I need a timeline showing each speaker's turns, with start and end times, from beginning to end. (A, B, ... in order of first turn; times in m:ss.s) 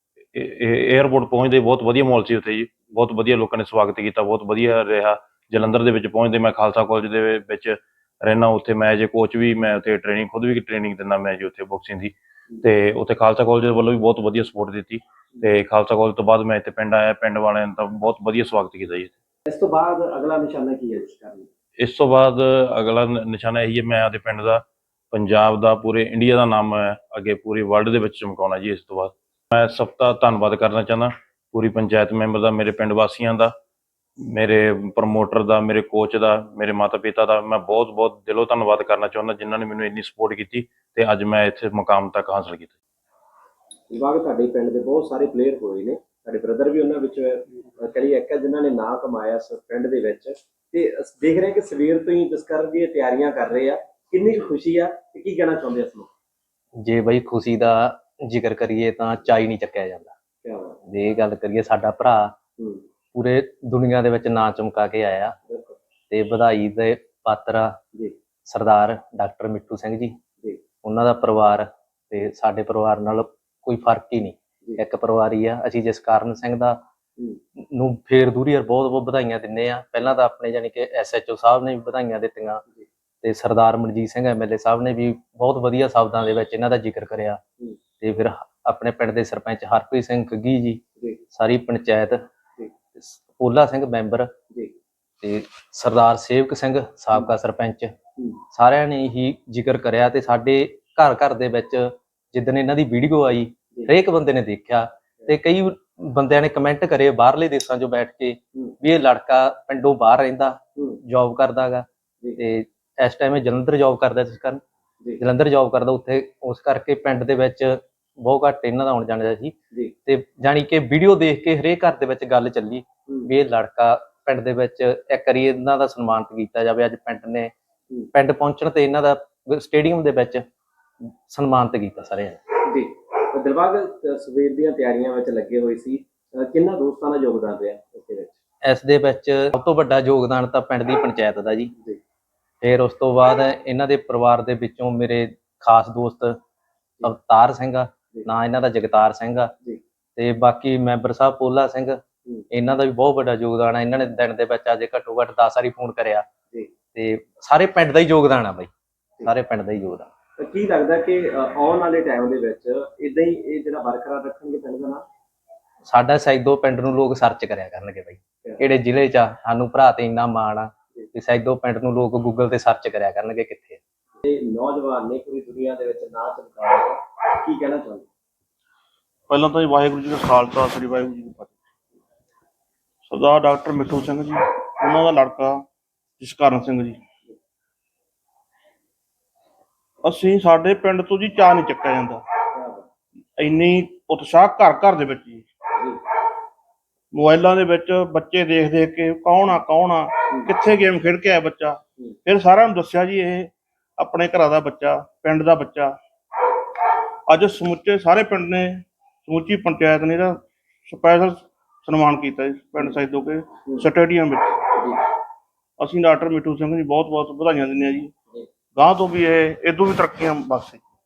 0:00.3-0:19.1 A
0:19.5-0:21.5 B
0:21.8-0:33.5 A
0:34.2-0:42.7 A
0:43.9-0:56.1 B
0:56.8-1:00.1 C
1:00.4-1:00.8 B
1:00.9-1:02.4 C
1:02.6-1:02.8 B
1:03.1-1:05.4 C
1:05.4-1:05.8 B
1:06.1-1:07.8 C
1:08.5-1:10.2 C
1:10.8-1:16.8 C
1:17.7-1:22.6 C
1:23.2-1:27.4 C
1:28.0-1:30.8 C
1:31.3-1:32.2 C
1:33.0-1:34.3 C
1:35.2-1:37.9 C
1:38.5-1:51.9 C
1:52.4-1:54.6 C
1:55.2-2:07.5 C
2:08.1-2:10.4 C
2:11.3-2:12.4 C
2:12.6-2:18.3 B
2:18.6-2:21.7 C
2:22.6-2:26.4 C
2:27.0-2:29.5 C
2:30.2-2:32.0 C
2:32.5-2:36.3 C
2:36.9-2:38.7 C
2:39.2-2:40.1 C
2:40.4-2:45.0 B
2:45.8-2:53.8 C
2:54.2-2:58.1 B
2:59.3-3:01.6 D
3:03.1-3:05.6 D
3:06.2-3:07.0 D
3:10.0-3:12.2 D
3:12.5-3:12.8 B
3:13.4-3:15.7 D
3:17.1-3:26.0 D
3:27.3-3:34.8 D
3:35.8-3:38.1 D
3:38.8-3:40.8 D